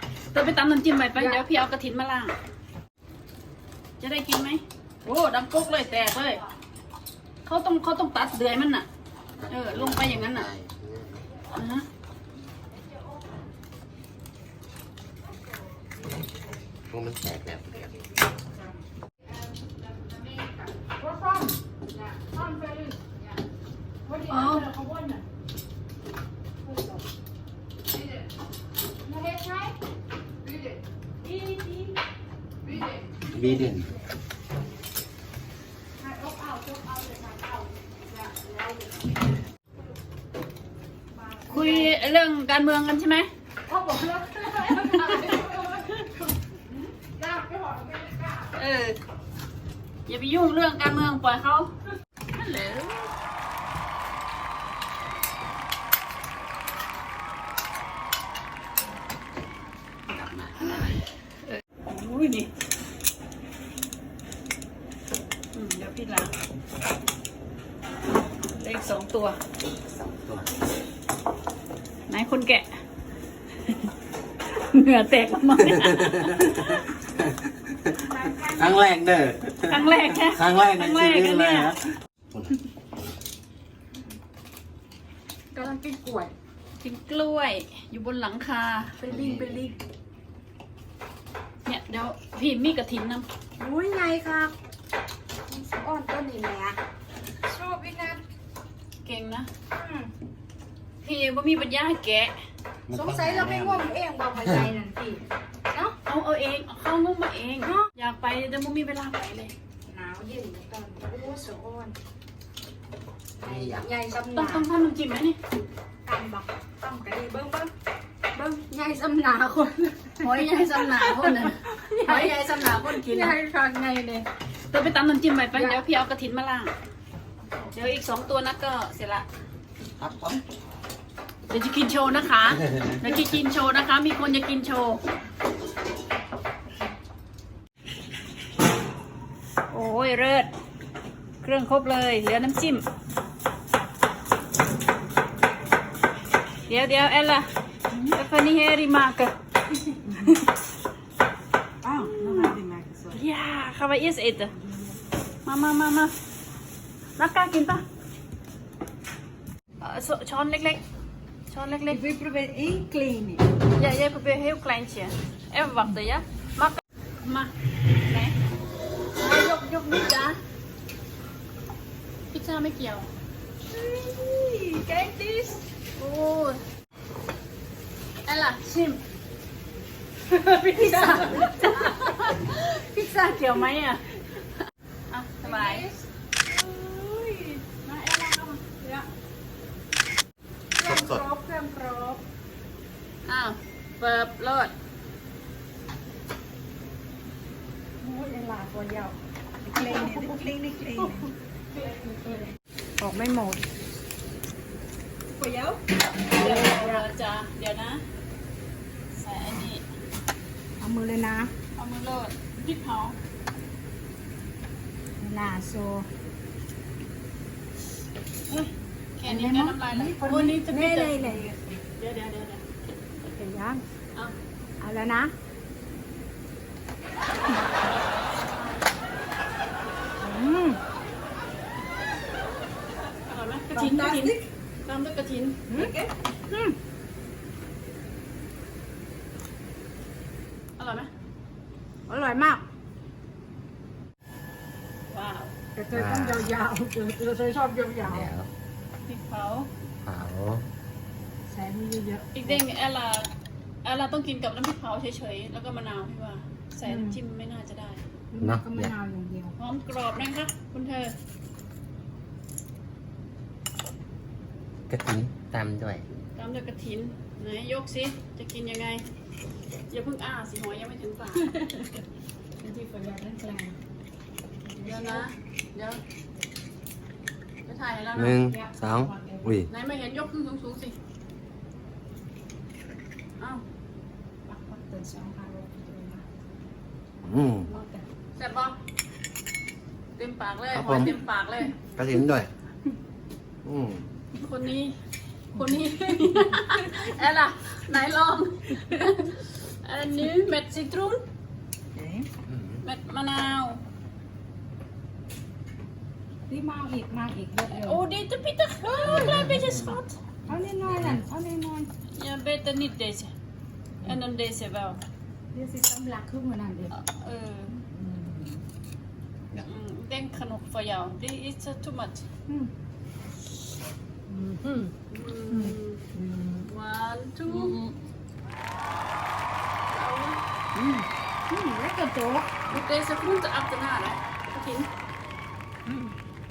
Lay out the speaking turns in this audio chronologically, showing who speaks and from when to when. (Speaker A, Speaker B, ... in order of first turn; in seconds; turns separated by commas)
Speaker A: 0.3-2.4, Speaker B: 1.1-1.4, Speaker A: 4.0-6.4, Speaker A: 7.5-8.9, Speaker C: 9.4-11.3, Speaker A: 9.5-10.5, Speaker A: 11.5-11.8, Speaker C: 16.9-18.0, Speaker B: 20.7-23.2, Speaker B: 24.1-25.2, Speaker A: 24.3-24.7, Speaker B: 26.6-27.1, Speaker B: 29.0-29.8, Speaker B: 31.2-31.9, Speaker C: 33.3-33.9, Speaker B: 36.0-39.1, Speaker B: 41.1-42.0, Speaker A: 41.5-43.3, Speaker B: 43.7-46.1, Speaker A: 44.6-45.3, Speaker B: 47.0-48.6, Speaker A: 48.5-49.0, Speaker A: 50.1-51.7, Speaker A: 52.4-53.1, Speaker C: 60.1-61.0, Speaker A: 61.8-62.5, Speaker A: 65.5-66.3, Speaker A: 68.6-69.4, Speaker C: 69.9-70.5, Speaker A: 72.1-72.7, Speaker A: 73.6-73.9, Speaker A: 74.5-76.9, Speaker B: 77.9-78.9, Speaker C: 78.5-81.8, Speaker A: 79.7-81.8, Speaker B: 85.5-86.3, Speaker A: 86.8-89.0, Speaker B: 89.0-89.8, Speaker C: 89.1-89.6, Speaker A: 91.6-93.3, Speaker B: 93.6-94.5, Speaker B: 95.5-96.8, Speaker B: 97.5-98.2, Speaker A: 99.0-99.5, Speaker B: 99.7-100.1, Speaker A: 101.0-102.3, Speaker C: 102.9-103.9, Speaker B: 102.9-106.0, Speaker A: 106.1-109.5, Speaker B: 109.9-112.0, Speaker B: 113.4-114.7, Speaker C: 113.4-113.9, Speaker A: 114.3-115.4, Speaker B: 116.1-117.7, Speaker B: 118.3-124.3, Speaker A: 120.2-123.4, Speaker A: 124.7-126.7, Speaker B: 125.5-125.8, Speaker A: 127.7-129.2, Speaker C: 130.0-130.4, Speaker A: 131.5-135.0, Speaker A: 139.7-140.5, Speaker A: 141.4-142.8, Speaker A: 146.7-147.5, Speaker A: 148.1-149.3, Speaker D: 151.8-153.2, Speaker A: 152.0-152.5, Speaker A: 153.1-154.5, Speaker A: 155.4-156.1, Speaker A: 157.2-157.8, Speaker A: 159.8-160.8, Speaker A: 161.5-162.0, Speaker D: 161.9-163.4, Speaker A: 163.7-167.5, Speaker A: 168.1-168.3, Speaker A: 169.2-170.4, Speaker A: 172.3-173.1, Speaker B: 173.7-175.6, Speaker A: 176.0-176.6, Speaker A: 178.3-179.0, Speaker B: 180.3-182.0, Speaker A: 180.6-184.0, Speaker A: 185.1-185.8, Speaker B: 185.4-189.0, Speaker B: 190.8-192.2, Speaker C: 190.8-191.2, Speaker A: 193.2-194.7, Speaker B: 198.0-203.7, Speaker D: 199.7-201.3, Speaker D: 205.4-205.8, Speaker B: 206.3-207.1, Speaker A: 206.3-208.0, Speaker A: 209.1-209.8, Speaker B: 210.8-211.5, Speaker A: 211.8-213.2, Speaker B: 215.2-216.1, Speaker A: 219.2-221.4, Speaker B: 219.2-221.7, Speaker A: 222.0-222.6, Speaker B: 223.3-223.8, Speaker B: 224.8-225.3, Speaker A: 227.5-228.8, Speaker B: 230.2-230.8, Speaker A: 233.3-235.6, Speaker D: 233.7-234.5, Speaker D: 235.7-236.1, Speaker B: 236.5-236.8, Speaker A: 240.8-241.1, Speaker B: 242.1-242.6, Speaker A: 245.1-245.5, Speaker B: 245.7-248.3, Speaker C: 245.9-246.5, Speaker C: 248.0-248.5, Speaker A: 249.1-249.7, Speaker C: 250.0-250.7, Speaker B: 251.5-252.6, Speaker A: 252.3-253.3, Speaker A: 253.8-258.0, Speaker B: 256.8-257.2, Speaker B: 258.3-259.6, Speaker C: 258.4-258.9, Speaker A: 259.6-261.1, Speaker C: 264.9-266.1, Speaker A: 266.4-269.0, Speaker A: 269.9-271.6, Speaker B: 271.4-271.9, Speaker B: 272.6-273.8, Speaker B: 274.6-275.3, Speaker A: 274.8-276.0, Speaker A: 277.7-278.4, Speaker C: 278.2-279.7, Speaker B: 278.4-279.6, Speaker A: 279.7-280.9, Speaker B: 284.5-286.2, Speaker C: 287.2-287.7, Speaker B: 287.7-288.0, Speaker A: 288.4-288.8, Speaker A: 290.2-291.8, Speaker C: 290.7-291.2, Speaker C: 291.8-292.5, Speaker C: 293.6-294.1, Speaker A: 294.4-294.9, Speaker A: 295.5-301.2, Speaker D: 301.9-302.3, Speaker C: 302.5-302.8, Speaker A: 302.8-303.8, Speaker B: 306.5-308.1, Speaker A: 307.7-310.2, Speaker C: 309.0-310.0, Speaker B: 310.5-311.9, Speaker A: 312.1-313.3, Speaker A: 314.0-315.0, Speaker B: 315.5-316.9, Speaker A: 316.9-317.8, Speaker D: 318.0-318.4, Speaker A: 319.5-322.2, Speaker D: 324.3-324.9, Speaker A: 325.1-326.0, Speaker D: 325.5-326.7, Speaker A: 326.6-327.8, Speaker D: 327.5-328.0, Speaker A: 329.9-330.4, Speaker D: 330.8-331.1, Speaker B: 331.5-332.5, Speaker A: 332.7-334.9, Speaker D: 335.9-336.1